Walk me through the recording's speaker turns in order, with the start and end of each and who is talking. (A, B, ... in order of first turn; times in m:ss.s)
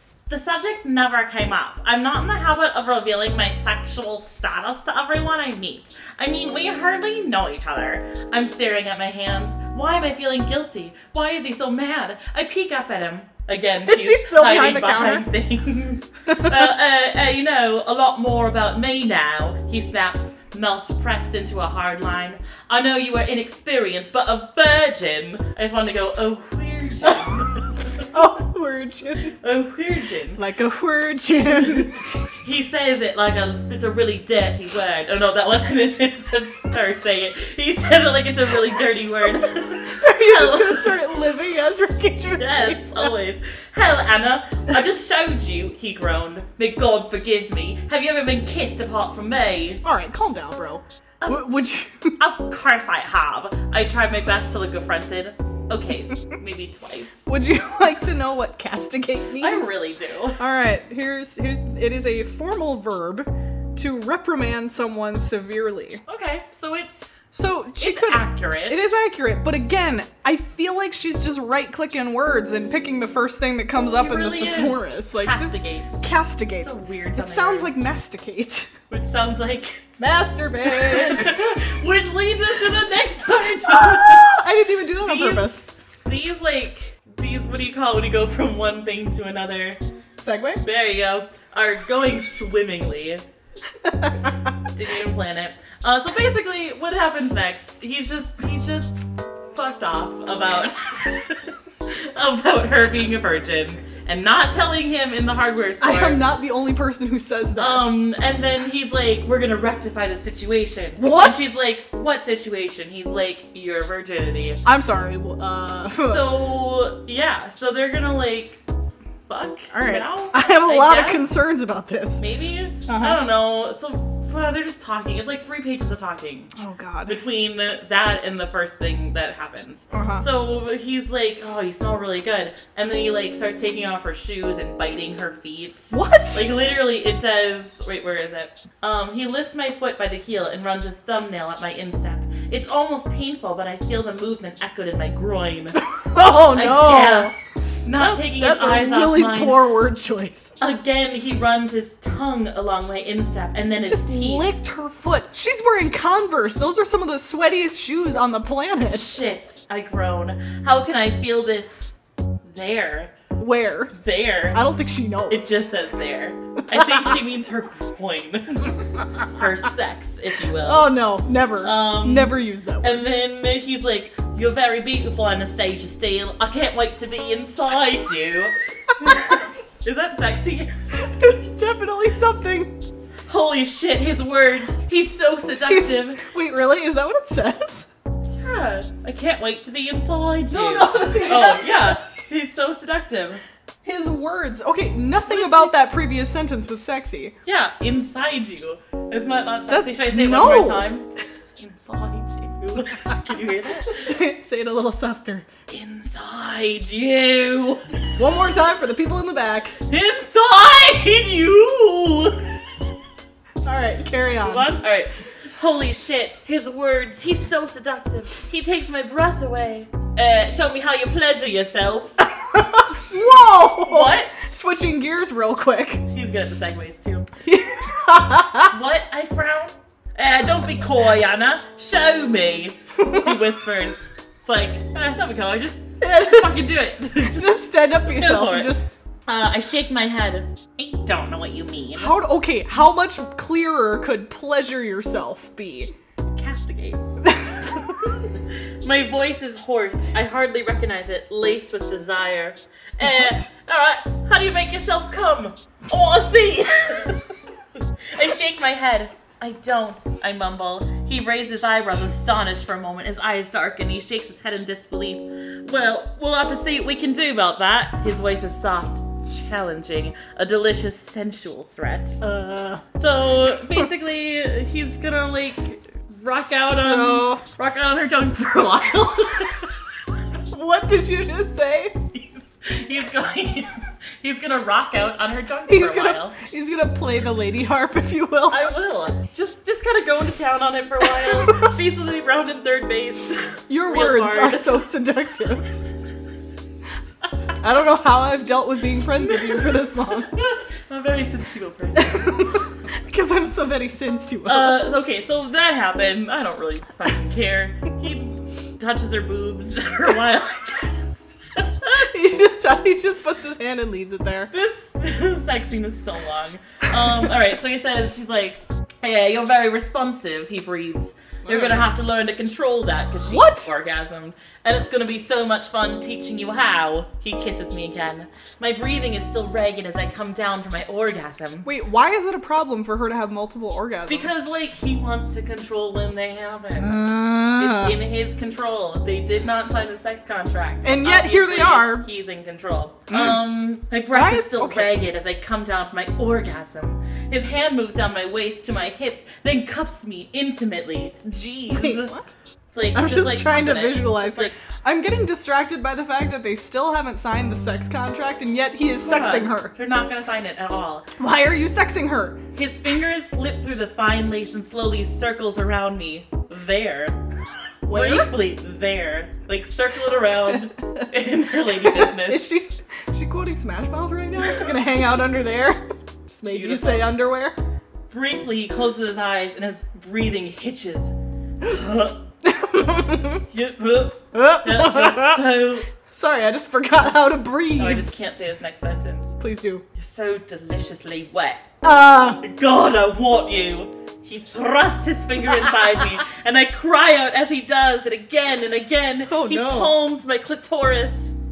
0:00.3-0:28.1 A
0:13.8-0:15.3 B
0:16.3-0:16.7 B
0:27.0-0:27.3 B
0:28.1-0:29.4 B
0:29.4-0:30.4 A
0:30.4-0:32.0 B
0:31.6-0:41.0 A
0:39.9-0:43.1 B
0:42.4-0:49.8 A
0:49.8-0:52.2 B
0:51.2-0:51.5 A
0:52.2-0:57.3 A
0:57.3-0:59.7 B
0:59.4-1:00.4 A
1:00.4-1:06.0 B
1:06.1-1:07.2 A
1:07.3-1:18.7 B
1:07.8-1:08.8 A
1:13.9-1:17.7 A
1:18.9-1:19.8 A
1:20.0-1:21.4 B
1:20.6-1:24.3 A
1:23.6-1:25.7 B
1:25.0-1:29.8 A
1:30.2-1:30.6 B
1:30.6-1:33.2 A
1:33.8-1:34.5 B
1:34.7-1:39.0 A
1:39.5-1:46.2 A
1:45.8-1:47.9 B
1:47.6-1:54.6 A
1:51.0-1:51.5 B
1:54.6-1:56.3 B
1:55.9-1:58.6 A
1:59.3-2:01.3 A
1:59.7-2:02.2 B
2:02.2-2:06.5 A
2:02.8-2:03.2 B
2:06.6-2:07.2 B
2:07.0-2:25.8 A
2:09.9-2:10.2 B
2:15.9-2:16.5 B
2:25.8-2:27.4 B
2:26.5-2:29.6 A
2:28.0-2:30.5 B
2:30.6-2:34.6 A
2:33.8-2:39.2 B
2:38.9-2:43.2 A
2:43.4-2:44.0 B
2:43.9-2:44.6 A
2:44.5-2:45.5 B
2:45.3-2:51.0 A
2:46.7-2:47.2 B
2:50.6-2:53.1 B
2:51.6-3:01.2 A
3:01.0-3:02.7 B
3:03.3-3:06.2 A
3:05.6-3:07.9 B
3:08.4-3:13.4 A
3:10.5-3:12.0 B
3:13.8-3:17.3 B
3:15.2-3:15.8 A
3:17.4-3:24.1 A
3:19.7-3:20.9 B
3:23.0-3:25.5 B
3:25.7-3:28.0 A
3:28.2-3:29.8 B
3:29.9-3:32.5 A
3:33.6-3:34.7 B
3:34.4-3:42.2 A
3:42.4-3:46.0 B
3:43.8-3:44.3 A
3:46.1-3:47.3 A
3:47.4-3:48.7 B
3:48.7-3:58.7 A
3:53.0-3:53.3 B
3:56.0-3:56.7 B
3:57.2-3:58.9 B
3:59.3-4:02.1 A
4:01.9-4:05.9 B
4:06.3-4:07.0 A
4:07.2-4:08.1 B
4:07.8-4:17.3 A
4:13.0-4:13.5 B
4:17.8-4:32.2 A
4:32.2-4:32.8 B
4:33.0-4:39.7 A
4:36.3-4:37.4 B
4:40.5-4:42.0 B
4:42.1-4:46.4 A
4:45.7-4:48.7 B
4:48.5-4:54.8 A
4:51.2-4:51.7 B
4:53.7-4:55.6 B
4:57.6-5:00.3 B
4:59.2-5:02.7 A
5:02.0-5:04.9 B
5:04.4-5:11.9 A
5:11.9-5:14.5 B
5:14.5-5:31.7 A
5:21.4-5:21.8 B
5:23.2-5:23.7 B
5:31.6-5:34.4 B
5:34.1-5:37.0 A
5:36.8-5:38.0 B
5:37.6-5:52.1 A
5:40.8-5:42.1 B
5:43.1-5:43.4 B
5:44.1-5:44.9 B
5:51.7-5:52.3 B
5:52.7-5:54.5 A
5:52.9-5:59.7 B
5:59.0-6:01.1 A
6:01.2-6:02.4 B
6:02.5-6:07.2 A
6:07.8-6:08.3 B
6:07.9-6:12.4 A
6:10.5-6:11.1 B
6:11.6-6:17.6 B
6:16.4-6:17.1 A
6:18.1-6:22.2 A
6:22.4-6:23.4 B
6:23.5-6:25.9 A
6:24.3-6:28.0 B
6:27.8-6:29.4 A
6:29.4-6:29.8 B
6:29.9-6:31.7 A
6:31.8-6:32.4 B
6:32.4-6:41.4 A
6:39.3-6:39.9 B